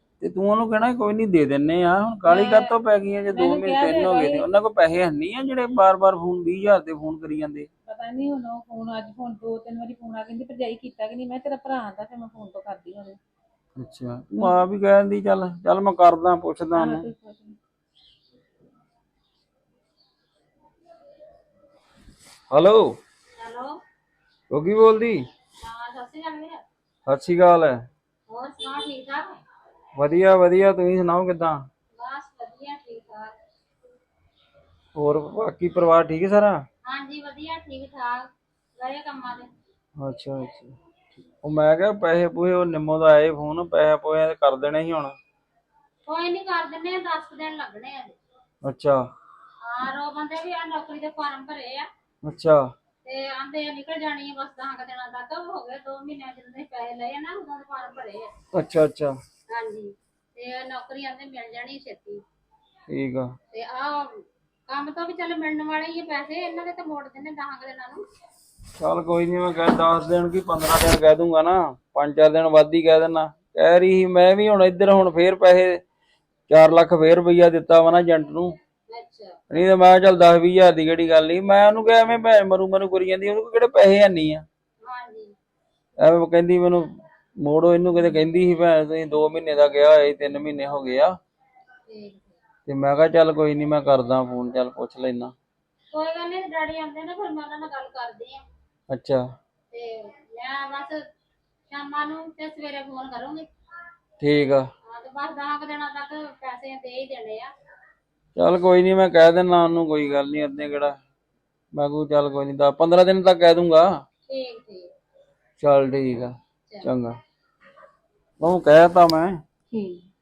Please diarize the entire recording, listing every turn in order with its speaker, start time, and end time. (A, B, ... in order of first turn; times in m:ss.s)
0:00.2-0:07.7 A
0:02.3-0:02.7 B
0:03.3-0:04.5 B
0:07.9-0:13.2 B
0:13.8-0:17.1 A
0:16.7-0:17.6 B
0:22.5-0:23.0 A
0:23.4-0:23.7 C
0:24.5-0:25.2 A
0:25.6-0:26.6 C
0:27.0-0:27.8 A
0:28.3-0:29.3 C
0:29.9-0:31.7 A
0:31.9-0:33.3 C
0:34.9-0:36.6 A
0:36.8-0:39.5 C
0:40.0-0:40.7 A
0:41.4-0:45.2 A
0:46.0-0:48.2 C
0:48.6-0:49.0 A
0:49.6-0:51.9 C
0:52.2-0:52.6 A
0:53.0-0:58.3 C
0:58.5-0:59.2 A
0:59.5-1:02.2 C
1:02.9-1:03.3 A
1:03.5-1:08.0 C
1:08.8-1:15.8 A
1:16.5-1:18.5 A
1:18.9-1:19.4 C
1:19.5-1:24.4 A
1:24.8-1:25.3 C
1:26.0-1:26.9 A
1:27.4-1:31.1 A
1:31.9-1:32.3 C
1:32.7-1:35.3 A
1:35.9-1:38.4 C
1:38.9-1:39.2 A
1:39.7-1:41.0 C
1:41.7-1:43.5 C
1:44.2-1:44.7 A
1:44.9-1:47.5 C
1:48.4-1:51.0 A
1:51.7-1:53.9 A
1:54.3-1:54.9 C
1:55.6-1:57.2 A
1:58.4-1:59.4 A
1:59.7-2:00.1 B